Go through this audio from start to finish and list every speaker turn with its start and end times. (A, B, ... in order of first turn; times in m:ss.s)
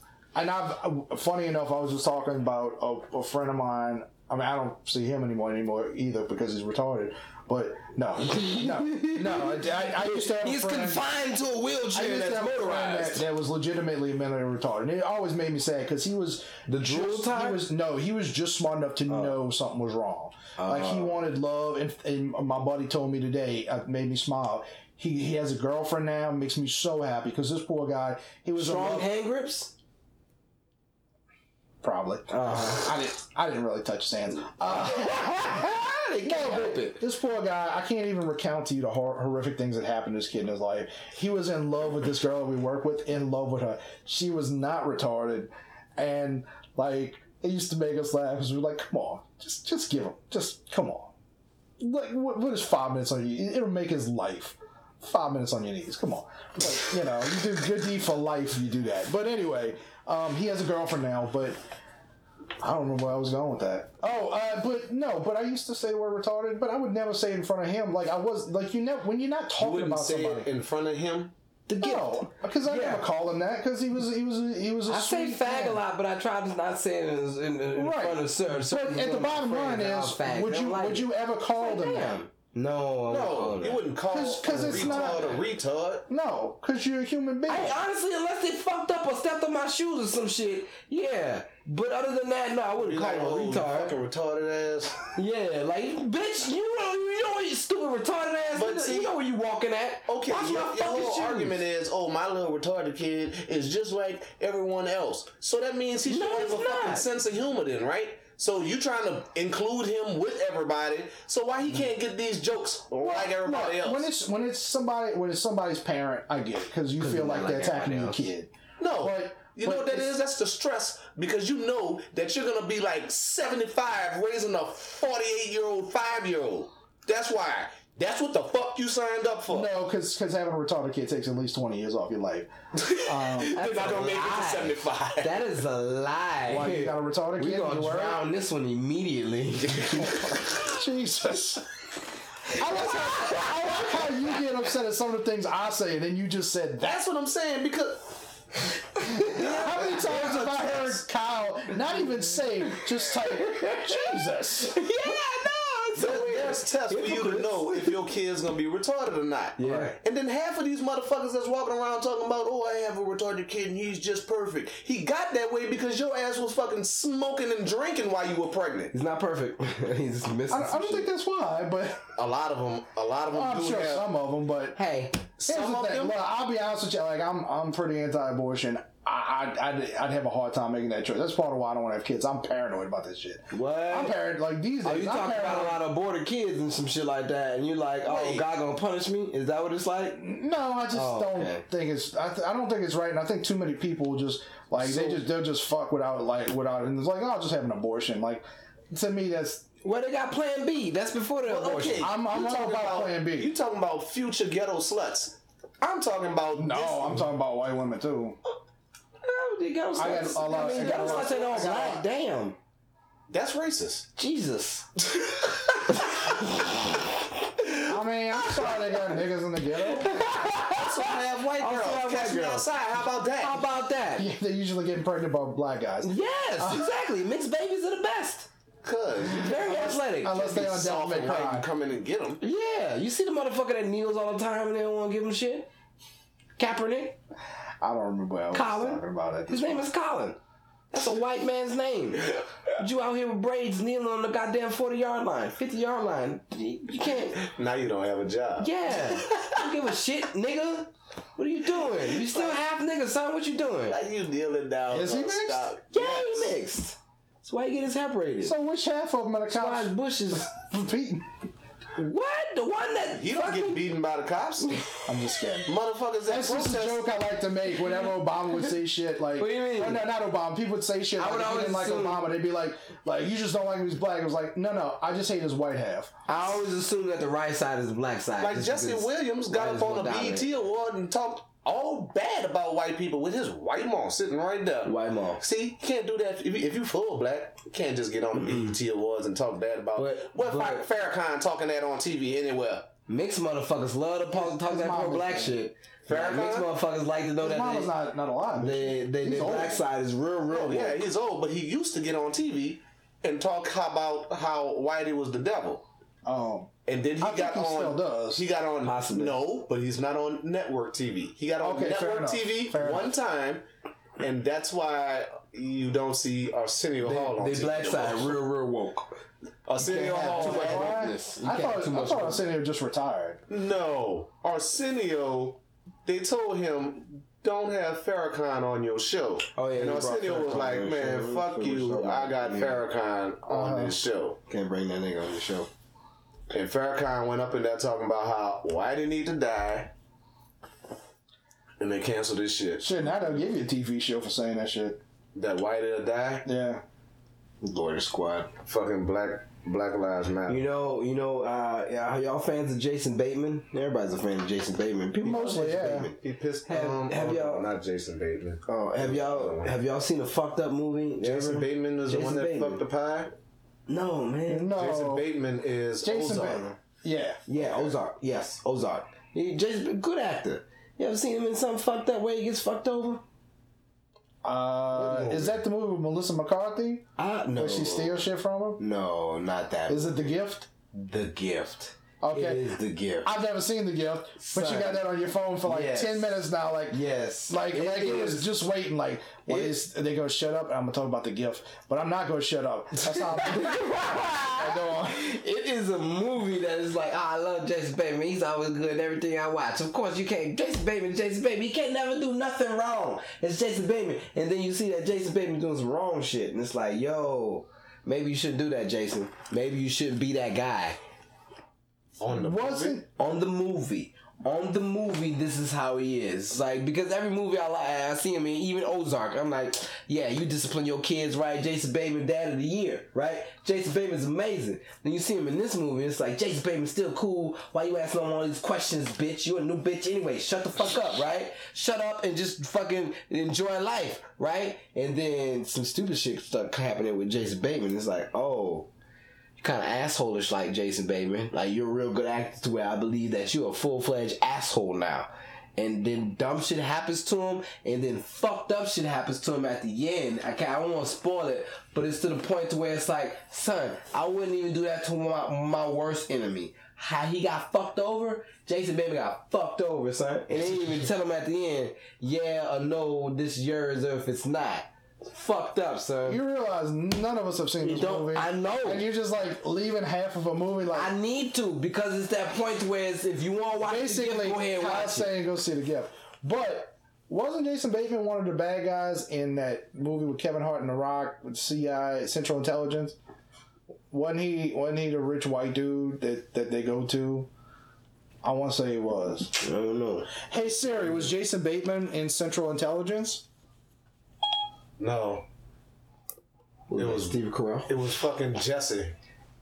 0:00.3-0:11.0 A
0:08.3-0:13.3 B
0:11.9-0:29.1 A
0:16.7-0:17.6 B
0:19.1-0:19.4 B
0:20.6-0:21.2 B
0:28.6-0:29.7 B
0:31.8-0:35.6 A
0:32.3-0:32.9 B
0:34.6-0:37.0 B
0:36.2-0:51.1 A
0:51.8-1:01.6 A
1:02.6-1:10.5 A
1:09.6-1:11.3 C
1:11.7-1:13.0 B
1:11.8-1:15.8 A
1:14.9-1:23.9 B
1:17.7-1:22.2 A
1:23.1-1:26.1 C
1:24.1-1:25.4 A
1:24.5-1:25.4 B
1:26.1-1:27.8 A
1:27.5-1:33.9 B
1:32.8-1:35.0 C
1:35.2-1:41.6 B
1:38.6-1:39.1 C
1:40.1-1:54.1 C
1:46.1-1:47.1 B
1:53.0-2:00.1 A
1:57.0-1:58.2 B
1:58.8-2:09.7 C
2:09.5-2:13.6 A
2:12.8-2:15.5 C
2:13.4-2:20.4 B
2:16.5-2:18.2 A
2:20.0-2:21.6 A
2:22.5-2:27.0 A
2:22.6-2:24.1 B
2:26.8-2:28.2 C
2:29.1-2:30.4 B
2:29.3-2:34.8 A
2:29.4-2:31.0 C
2:33.3-2:38.0 B
2:36.0-2:48.9 C
2:39.6-2:40.0 B
2:48.9-2:51.1 B
2:50.5-2:52.1 A
2:52.2-2:54.1 C
2:53.3-2:54.8 A
2:54.8-2:55.2 B
2:55.4-2:56.2 C
2:55.5-3:05.8 A
3:03.5-3:04.2 B
3:04.8-3:10.2 B
3:08.0-3:08.5 C
3:10.2-3:19.7 A
3:10.9-3:11.6 B
3:14.8-3:15.2 B
3:19.8-3:22.1 B
3:21.5-3:27.3 C
3:22.0-3:23.5 A
3:26.6-3:28.4 A
3:29.2-3:32.6 B
3:30.0-3:32.1 A
3:30.5-3:31.8 C
3:33.3-3:34.1 C
3:34.2-3:34.9 B
3:35.2-3:36.0 C
3:37.9-3:40.2 A
3:39.9-3:42.7 B
3:40.7-3:43.7 C
3:43.4-3:44.3 B
3:44.2-3:46.9 A
3:46.0-3:48.5 B
3:48.8-3:52.4 C
3:49.3-3:50.4 B
3:50.2-3:51.7 A
3:52.4-3:55.7 B
3:56.6-3:57.2 B
3:57.8-3:59.9 A
3:58.5-4:00.4 B
4:00.9-4:07.4 B
4:07.4-4:09.6 C
4:08.6-4:14.0 B
4:12.1-4:12.6 C
4:13.9-4:16.6 C
4:14.9-4:15.7 A
4:15.9-4:18.6 B
4:18.4-4:21.3 A
4:19.5-4:20.5 B
4:22.0-4:23.9 B
4:23.2-4:24.8 C
4:24.6-4:24.9 B
4:25.1-4:25.8 A
4:25.7-4:27.1 C
4:26.3-4:36.1 A
4:29.4-4:30.0 B
4:31.2-4:32.3 B
4:36.3-4:40.5 B
4:38.4-4:52.9 C
4:44.8-4:45.4 B
4:48.4-4:48.7 B
4:50.0-4:50.9 B
4:53.1-4:57.9 B
4:54.3-4:55.6 A
4:56.1-4:56.7 C
4:57.4-4:59.8 A
4:58.6-5:01.0 B
5:00.5-5:05.8 C
5:06.2-5:08.4 A
5:06.9-5:13.6 C
5:08.8-5:09.4 B
5:11.6-5:13.1 A
5:14.2-5:18.4 C
5:17.0-5:19.1 B
5:19.7-5:21.1 C
5:19.8-5:22.5 B
5:20.1-5:23.4 A
5:23.5-5:34.4 C
5:29.6-5:32.8 B
5:33.5-5:34.0 A
5:34.5-5:35.7 B
5:36.5-5:39.9 C
5:41.8-5:43.3 C
5:42.8-5:45.0 A
5:45.4-5:46.5 C
5:46.4-5:46.8 A
5:47.6-5:48.5 B
5:48.6-5:50.7 C
5:50.5-5:57.7 B
5:55.2-5:56.1 A
5:56.2-5:59.8 C
5:58.7-6:02.8 B
6:01.2-6:03.3 C
6:03.9-6:04.7 B
6:04.5-6:05.3 A
6:04.7-6:06.8 C
6:06.0-6:07.4 A
6:07.5-6:13.2 B
6:07.6-6:07.9 C
6:14.4-6:18.8 A
6:14.9-6:15.6 C
6:17.2-6:18.2 B
6:18.8-6:20.3 B
6:19.9-6:20.7 A
6:20.9-6:23.4 B
6:22.2-6:22.7 A
6:23.2-6:34.0 A
6:24.4-6:25.0 B
6:25.6-6:26.4 B
6:26.9-6:28.5 B
6:29.5-6:29.8 B
6:33.1-6:51.0 B
6:34.6-6:35.3 A
6:52.2-6:53.0 C
6:52.3-6:53.1 A
6:53.2-7:18.9 B
7:19.6-7:46.4 B
7:46.3-7:51.1 A
7:47.8-7:49.1 B
7:50.9-7:55.3 B
7:53.8-8:03.2 A
8:04.1-8:07.5 A
8:08.4-8:09.5 A
8:09.6-8:10.3 B
8:10.5-8:13.4 A
8:15.0-8:15.5 C
8:16.9-8:17.9 B
8:16.9-8:19.1 C